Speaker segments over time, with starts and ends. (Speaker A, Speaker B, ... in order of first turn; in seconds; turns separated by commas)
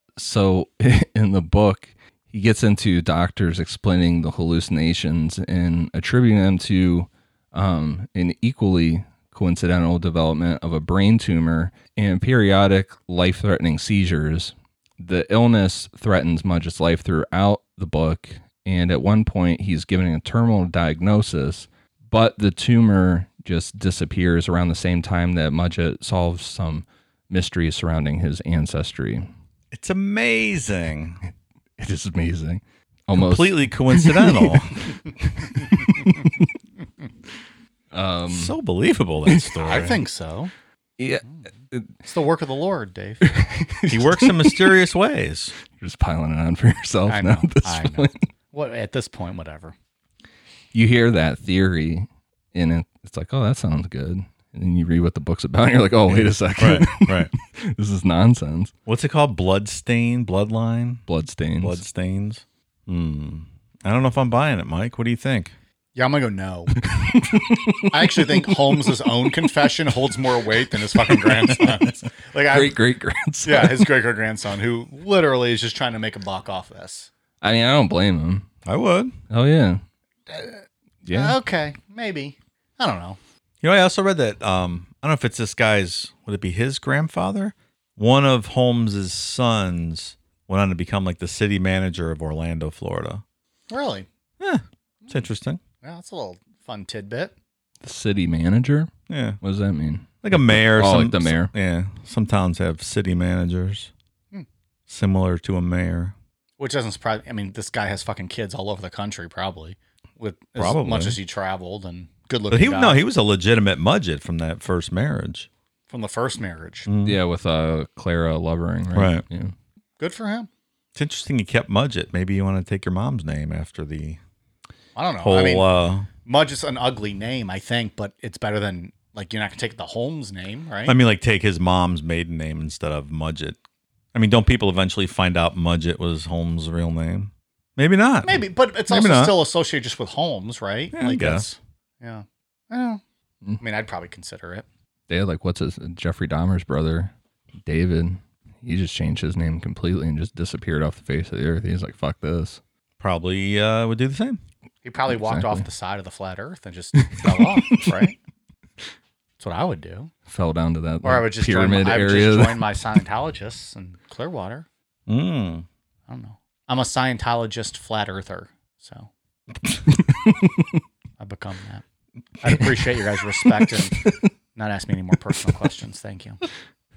Speaker A: 0.2-29.3, Speaker B: 29.7-31.2, Speaker A: 31.8-36.4, Speaker B: 33.1-35.0, Speaker A: 37.9-38.5, Speaker B: 38.3-40.0, Speaker C: 39.6-40.5, Speaker A: 41.0-41.9, Speaker C: 42.0-43.3, Speaker A: 43.3-44.6, Speaker B: 43.9-45.6, Speaker A: 45.7-48.2, Speaker C: 47.1-49.8, Speaker A: 50.7-58.7, Speaker B: 56.1-57.3, Speaker B: 58.9-61.0, Speaker A: 61.1-61.8, Speaker B: 61.6-65.5, Speaker C: 66.0-66.7, Speaker A: 66.8-68.9, Speaker C: 67.9-72.8, Speaker B: 71.6-71.9, Speaker A: 72.5-73.9, Speaker C: 73.5-77.1, Speaker A: 77.4-78.5, Speaker B: 78.7-79.2, Speaker A: 79.3-79.8, Speaker C: 80.3-83.2, Speaker A: 81.0-81.4, Speaker B: 83.6-93.2, Speaker C: 93.7-94.1, Speaker B: 94.4-95.6, Speaker C: 95.8-97.3, Speaker A: 97.8-101.5, Speaker B: 99.1-99.4, Speaker B: 100.2-103.9, Speaker B: 104.9-106.2, Speaker C: 106.6-113.0, Speaker B: 110.6-111.2, Speaker B: 112.5-115.5, Speaker C: 115.9-116.9, Speaker B: 116.9-117.2, Speaker A: 117.0-119.5, Speaker B: 118.9-119.2, Speaker C: 120.0-120.5, Speaker B: 121.0-124.2, Speaker C: 125.0-125.7, Speaker B: 125.2-126.1, Speaker C: 126.2-131.0, Speaker B: 130.8-133.6, Speaker B: 134.1-139.4, Speaker C: 138.2-143.0, Speaker B: 140.9-141.4, Speaker C: 143.6-144.7, Speaker A: 145.1-147.1, Speaker A: 147.6-152.6, Speaker B: 153.0-154.4, Speaker C: 154.8-158.2, Speaker A: 155.1-155.7, Speaker A: 157.0-157.8, Speaker C: 159.4-160.1, Speaker A: 160.3-162.7, Speaker C: 161.0-164.7, Speaker B: 165.1-165.7, Speaker C: 166.1-169.1, Speaker A: 170.0-170.7, Speaker C: 171.2-171.8, Speaker C: 172.4-174.0, Speaker A: 173.6-174.1, Speaker C: 174.6-176.4